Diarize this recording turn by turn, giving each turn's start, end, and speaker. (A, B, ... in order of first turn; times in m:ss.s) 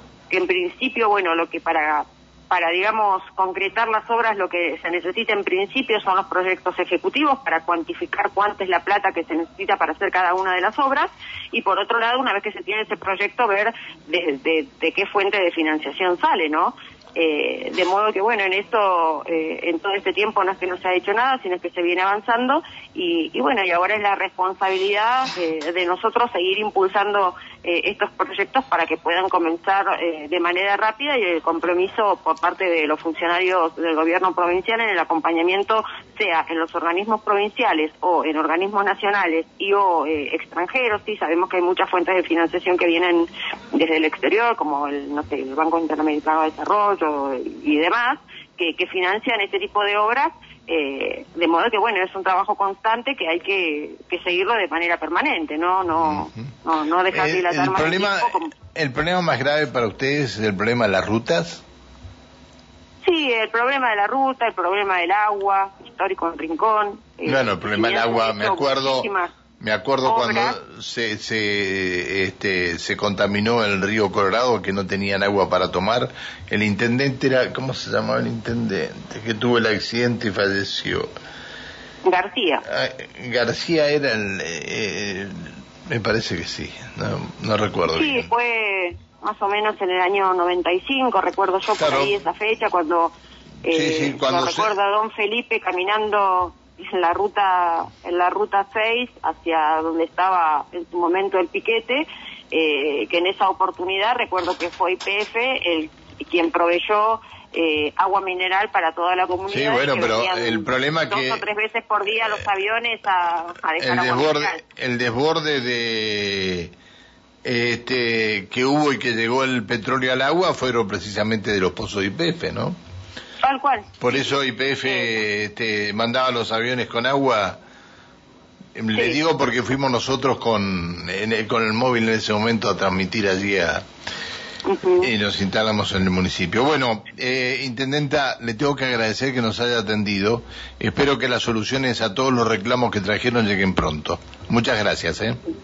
0:00.3-0:58.5 A
0:57.1-1:01.6 B
1:03.0-1:09.3 A
1:07.2-1:21.1 B
1:10.0-1:10.6 A
1:22.0-1:22.6 A
1:22.6-1:28.3 B
1:27.9-1:33.1 A
1:31.8-1:32.1 B
1:33.6-1:54.6 A
1:33.7-1:34.7 B
1:49.5-1:51.4 B
1:53.8-1:56.7 B
1:57.4-2:02.8 B
2:03.4-2:05.2 A
2:04.0-2:07.6 B
2:08.8-2:13.8 B
2:08.9-2:09.2 A
2:14.6-2:15.1 A
2:15.0-2:25.4 B